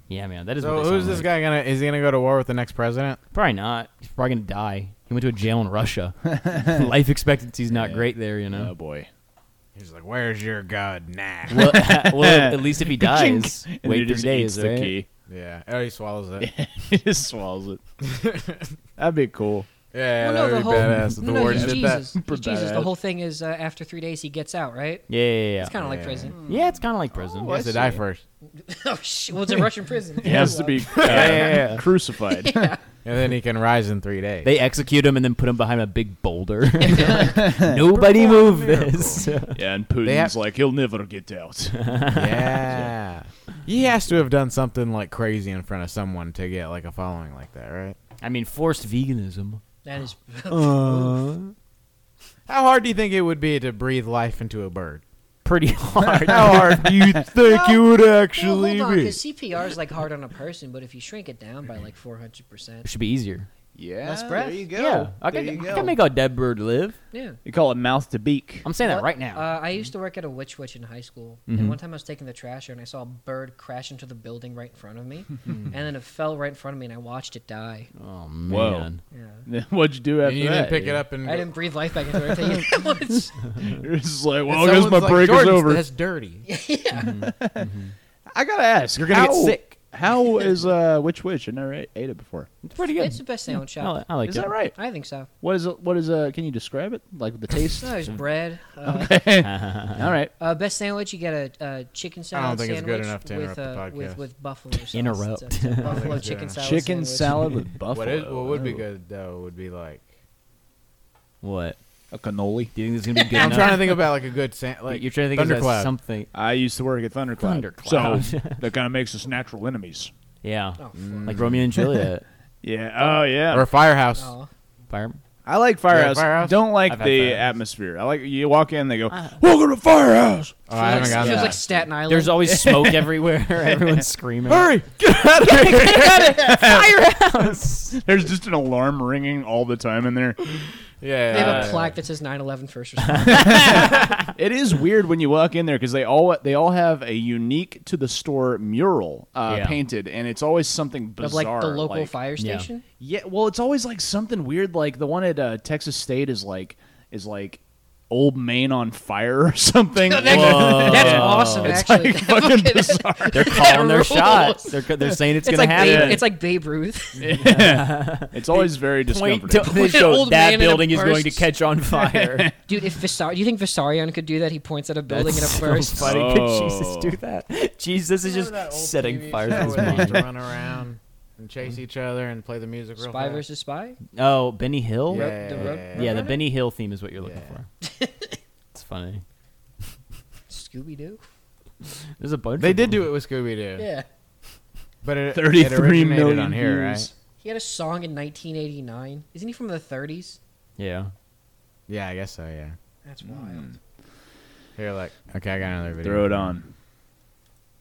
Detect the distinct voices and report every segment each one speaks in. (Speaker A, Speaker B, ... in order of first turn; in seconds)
Speaker A: 0.1-1.3, 3.3-8.7, 11.5-14.9, 25.1-25.8, 26.5-27.5, 31.0-31.8, 34.4-39.6, 41.8-42.7, 48.2-49.6, 50.5-51.5, 55.4-57.2, 62.9-63.5, 64.7-67.0, 68.6-69.5, 71.5-71.8, 78.0-79.0, 87.0-87.9, 92.6-94.6, 99.4-100.0, 104.9-106.2, 111.4-111.8, 112.7-114.0, 114.9-116.3, 117.4-118.6, 120.4-122.2, 124.9-125.2, 126.9-127.5, 131.1-131.5, 132.1-134.7, 135.4-138.0, 143.1-144.2, 149.5-149.8, 152.4-152.7, 160.2-161.9, 163.3-166.3, 167.4-172.5, 175.1-180.2, 184.2-187.7, 188.7-189.2, 192.2-193.1, 200.8-201.1
Speaker B: 0.6-3.2, 9.8-11.6, 15.3-16.5, 18.0-18.8, 19.9-22.1, 25.8-26.4, 27.4-28.2, 31.1-31.4, 33.0-34.5, 37.7-39.4, 40.0-40.4, 42.1-48.0, 52.5-55.0, 56.3-56.7, 80.2-81.5, 84.5-86.4, 89.0-89.7, 102.3-104.2, 105.8-106.6, 107.9-110.1, 113.3-115.9, 121.0-121.7, 123.5-124.3, 125.9-126.6, 130.7-131.6, 134.5-136.4, 141.0-141.9, 178.2-183.4, 185.1-186.3, 187.2-187.5, 192.6-193.9, 195.0-197.1, 201.9-202.7, 204.8-206.6
Speaker C: 6.4-6.8, 7.7-9.1, 11.5-15.1, 16.4-17.8, 19.0-19.7, 21.5-22.9, 26.3-28.0, 30.2-32.7, 37.2-37.8, 39.5-42.0, 56.1-59.2, 63.7-66.0, 67.5-68.7, 78.5-78.9, 79.5-81.0, 82.3-82.7, 83.6-85.8, 87.2-87.7, 88.3-92.5, 94.2-94.8, 95.4-98.2, 98.8-100.3, 106.6-108.8, 112.1-112.7, 116.3-120.1, 122.6-123.7, 125.5-131.6, 132.5-133.1, 133.6-134.0, 136.3-136.9, 138.0-140.4, 143.3-152.1, 153.0-163.7, 165.7-166.2, 167.2-169.8, 171.9-172.5, 176.0-177.2, 179.5-180.2, 195.3-197.1, 203.3-203.7, 206.0-206.7
Speaker D: 20.2-25.1, 25.6-26.4, 28.5-31.3, 32.4-32.8, 36.9-37.2, 49.9-51.2, 57.4-57.8, 58.4-62.9, 64.0-64.7, 67.1-67.4, 68.8-77.9, 79.1-79.5, 81.2-83.4, 86.5-87.1, 93.0-94.0, 94.7-95.3, 97.8-99.2, 100.4-107.5, 113.2-113.6, 120.8-121.3, 124.1-124.5, 130.7-132.4, 141.3-143.8, 151.2-152.8, 160.1-164.8, 165.4-167.2, 169.6-171.5, 172.7-176.1, 183.0-184.0, 185.1-186.3, 187.8-188.4, 190.5-191.2, 193.8-194.1, 197.4-200.4, 203.1-203.8